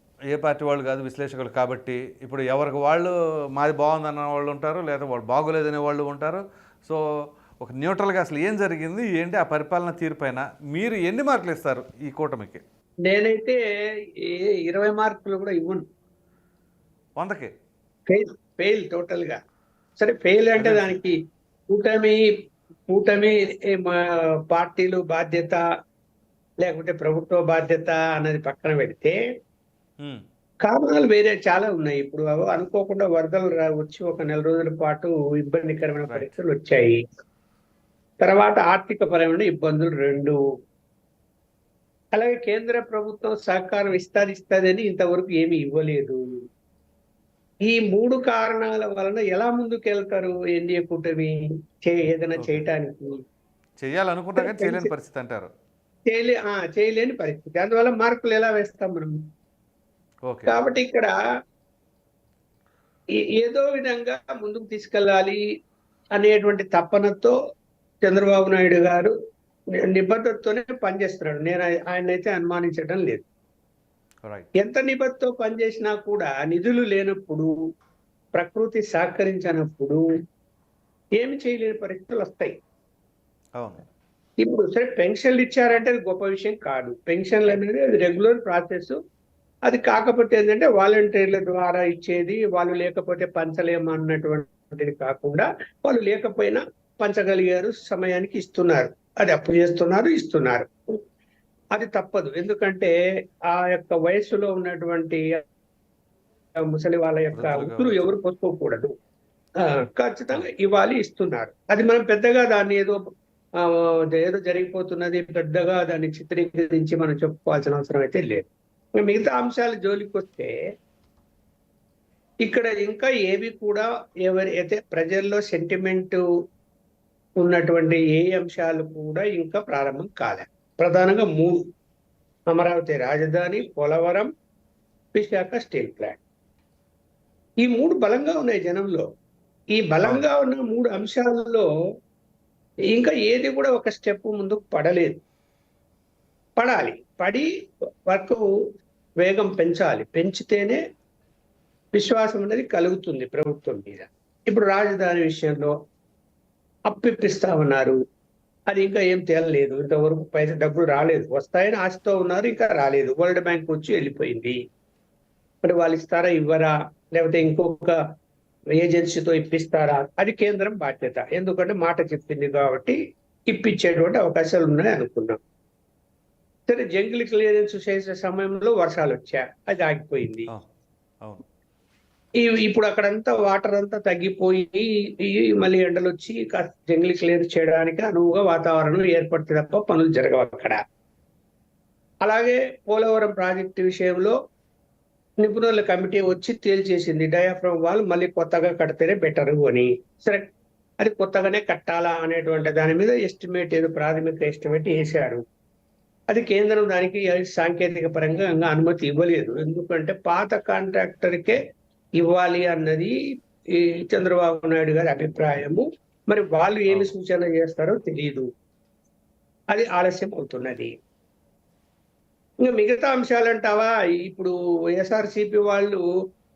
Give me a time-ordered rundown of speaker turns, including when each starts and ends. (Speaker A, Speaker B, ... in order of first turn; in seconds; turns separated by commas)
Speaker A: 0.3-7.0, Speaker A: 7.6-12.6, Speaker B: 13.1-13.6, Speaker B: 14.7-15.8, Speaker A: 17.2-17.5, Speaker B: 18.1-19.4, Speaker B: 20.0-21.1, Speaker A: 20.6-21.0, Speaker B: 21.7-22.2, Speaker B: 22.9-24.0, Speaker B: 24.5-25.6, Speaker B: 26.6-29.1, Speaker B: 30.6-37.0, Speaker A: 36.1-36.3, Speaker B: 38.2-40.4, Speaker B: 42.1-46.2, Speaker B: 47.7-51.3, Speaker B: 51.8-53.1, Speaker A: 52.4-52.6, Speaker A: 53.8-55.5, Speaker B: 54.4-54.9, Speaker B: 56.1-59.2, Speaker A: 60.3-60.6, Speaker B: 60.5-61.1, Speaker B: 63.4-65.4, Speaker B: 66.2-67.3, Speaker B: 68.0-69.1, Speaker B: 69.9-73.2, Speaker B: 74.6-77.5, Speaker B: 78.3-80.0, Speaker B: 81.2-82.5, Speaker A: 83.6-83.8, Speaker B: 84.4-88.9, Speaker B: 89.7-100.7, Speaker B: 101.7-102.9, Speaker B: 103.5-105.2, Speaker B: 106.7-108.9, Speaker A: 107.3-108.1, Speaker B: 109.6-113.0, Speaker B: 113.6-120.5, Speaker B: 122.4-126.2, Speaker B: 127.4-131.6, Speaker B: 132.5-134.3, Speaker B: 135.1-136.2, Speaker B: 137.6-139.0, Speaker B: 139.8-141.6, Speaker A: 140.0-140.3, Speaker B: 142.9-145.2, Speaker B: 146.6-147.5, Speaker B: 148.1-148.4, Speaker B: 149.2-150.8, Speaker B: 151.9-155.7, Speaker B: 156.9-157.9, Speaker B: 158.7-164.6, Speaker B: 165.6-167.9, Speaker B: 168.8-173.0, Speaker B: 173.5-175.4, Speaker B: 176.7-180.5, Speaker B: 182.4-190.8, Speaker B: 192.2-194.3, Speaker B: 195.4-200.4, Speaker B: 201.0-205.4, Speaker B: 206.3-211.6, Speaker B: 212.2-213.1, Speaker B: 213.8-218.4, Speaker B: 219.7-220.9, Speaker B: 222.6-226.0